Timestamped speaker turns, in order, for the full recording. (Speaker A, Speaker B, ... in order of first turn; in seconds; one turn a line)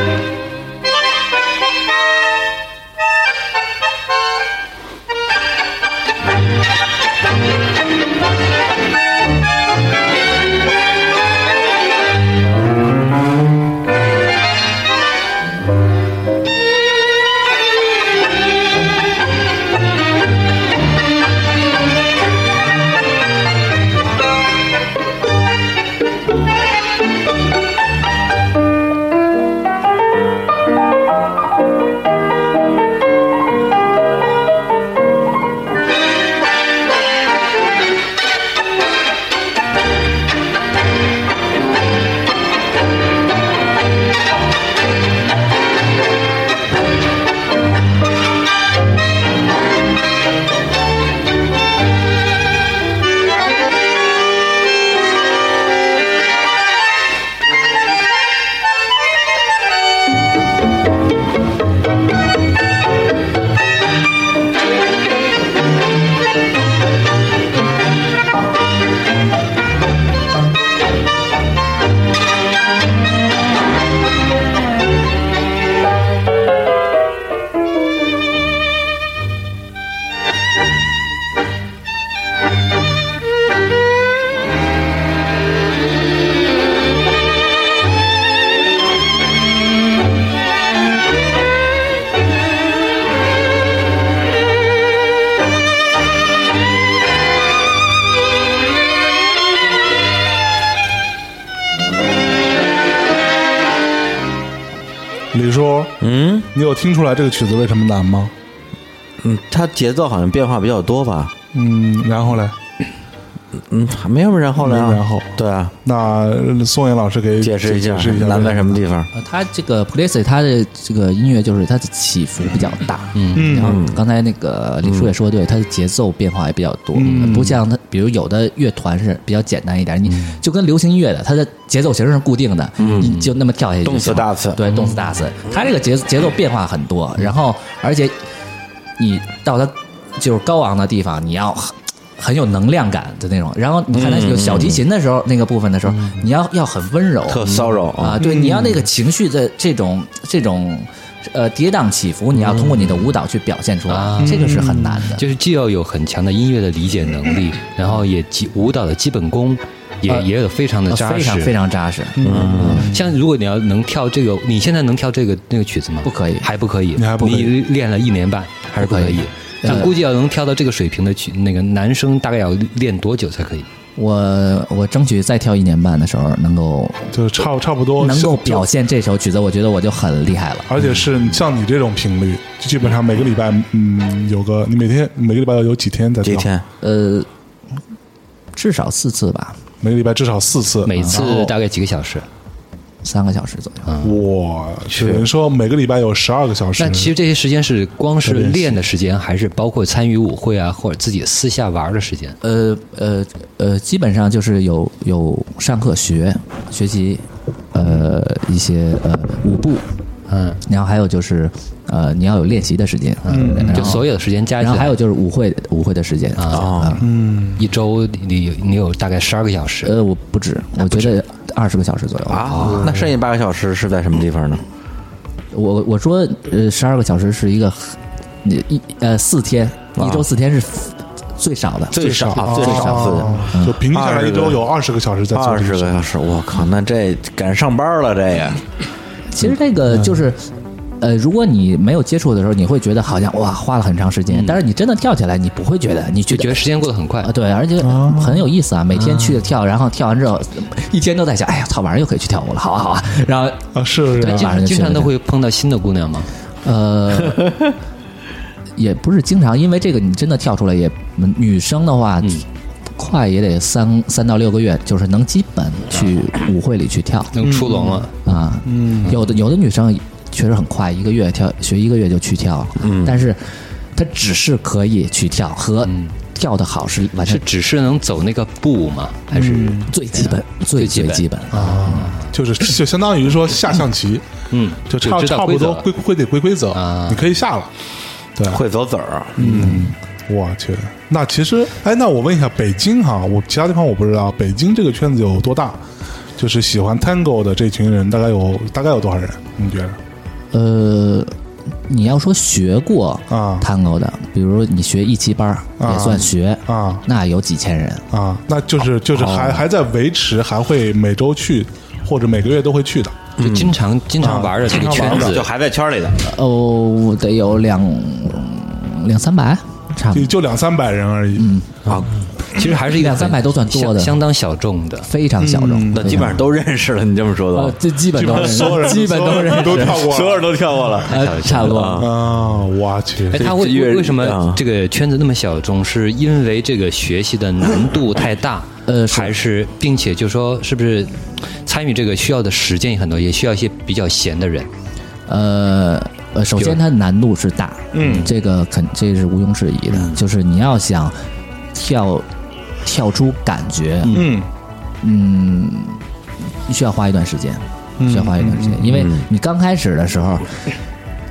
Speaker A: 105.3-106.0
Speaker B: 106.0-106.5
Speaker A: 106.5-108.3
Speaker B: 109.2-111.3
Speaker A: 111.5-112.5
Speaker B: 113.6-115.7
Speaker A: 114.6-118.8
Speaker B: 117.4-119.1
Speaker C: 119.1-138.2
Speaker D: 123.2-123.5
Speaker A: 123.3-123.8
Speaker B: 123.5-124.0
Speaker A: 127.0-127.3
Speaker D: 127.0-127.6
Speaker D: 130.1-130.3
Speaker B: 132.8-133.2
Speaker D: 132.9-133.3
Speaker B: 133.8-134.6
Speaker C: 139.0-155.2
Speaker B: 143.9-144.8
Speaker B: 147.3-148.2
Speaker D: 147.4-147.7
Speaker A: 148.2-148.8
Speaker D: 152.4-152.9
Speaker D: 153.9-161.5
Speaker A: 154.2-155.1
Speaker C: 160.9-162.9
Speaker A: 162.2-163.0
Speaker B: 162.2-162.8
Speaker D: 162.5-173.7
Speaker C: 166.0-166.5
Speaker A: 166.9-167.5
Speaker C: 168.8-169.9
Speaker C: 173.9-177.1
Speaker A: 177.1-178.7
Speaker C: 178.0-180.7
Speaker A: 180.7-186.5
Speaker B: 186.2-186.6
Speaker C: 186.8-187.3
Speaker C: 188.5-189.6
Speaker A: 189.8-191.2
Speaker D: 190.8-192.2
Speaker C: 191.0-191.5
Speaker C: 193.0-193.9
Speaker A: 194.0-197.1
Speaker B: 194.9-195.2
Speaker D: 196.8-202.4
Speaker A: 198.2-198.8
Speaker C: 202.4-209.8
Speaker D: 210.3-210.6
Speaker C: 210.6-214.1
Speaker A: 213.3-213.9
Speaker D: 213.3-214.9
Speaker C: 214.6-217.1
Speaker D: 216.4-216.7
Speaker B: 216.5-217.0
Speaker A: 217.0-217.6
Speaker D: 217.6-219.9
Speaker C: 219.8-222.8
Speaker D: 220.8-221.1
Speaker B: 222.3-224.6
Speaker D: 222.5-223.0
Speaker C: 225.5-233.8
Speaker B: 230.0-230.2
Speaker B: 231.9-234.6
Speaker A: 231.9-236.0
Speaker B: 235.3-238.6
Speaker C: 239.3-240.5
Speaker C: 241.0-246.6
Speaker D: 244.3-244.6
Speaker D: 246.3-247.3
Speaker C: 247.2-255.1
Speaker A: 247.8-248.5
Speaker D: 249.0-249.4
Speaker A: 253.7-254.6
Speaker D: 254.2-256.3
Speaker C: 256.6-257.5
Speaker C: 258.8-262.4
Speaker C: 263.0-267.4
Speaker D: 267.3-268.1
Speaker A: 267.4-268.1
Speaker C: 268.2-273.4
Speaker A: 268.6-269.1
Speaker B: 272.8-273.2
Speaker C: 273.9-277.4
Speaker D: 275.9-276.1
Speaker D: 277.2-282.3
Speaker A: 279.3-279.9
Speaker C: 279.9-281.9
Speaker A: 281.5-284.2
Speaker D: 284.5-285.9
Speaker A: 284.9-287.7
Speaker D: 286.7-287.2
Speaker A: 288.4-288.6
Speaker B: 288.5-289.4
Speaker A: 289.4-295.8
Speaker D: 289.4-289.9
Speaker A: 296.4-300.0
Speaker C: 300.5-301.3
Speaker C: 301.9-308.0
Speaker A: 303.3-303.7
Speaker A: 305.8-307.0
Speaker A: 308.1-313.2
Speaker B: 309.1-309.6
Speaker B: 313.4-313.8
Speaker D: 313.4-315.5
Speaker A: 314.2-315.4
Speaker B: 314.9-316.2
Speaker C: 316.2-320.3
Speaker A: 320.1-321.5
Speaker C: 321.4-321.7
Speaker D: 321.9-325.1
Speaker C: 322.8-324.2
Speaker C: 325.0-326.4
Speaker A: 325.4-326.4
Speaker B: 325.9-328.9
Speaker C: 327.5-330.1
Speaker A: 328.1-331.0
Speaker B: 329.7-332.1
Speaker C: 331.1-332.1
Speaker D: 331.1-331.9
Speaker A: 332.0-333.5
Speaker D: 333.3-341.1
Speaker B: 333.3-334.6
Speaker C: 338.9-339.4
Speaker D: 341.6-344.7
Speaker C: 345.3-351.1
Speaker A: 347.9-348.3
Speaker C: 351.7-352.2
Speaker C: 352.8-354.2
Speaker A: 354.1-354.5
Speaker C: 355.0-356.0
Speaker C: 356.6-360.5
Speaker A: 358.0-358.9
Speaker B: 358.9-359.2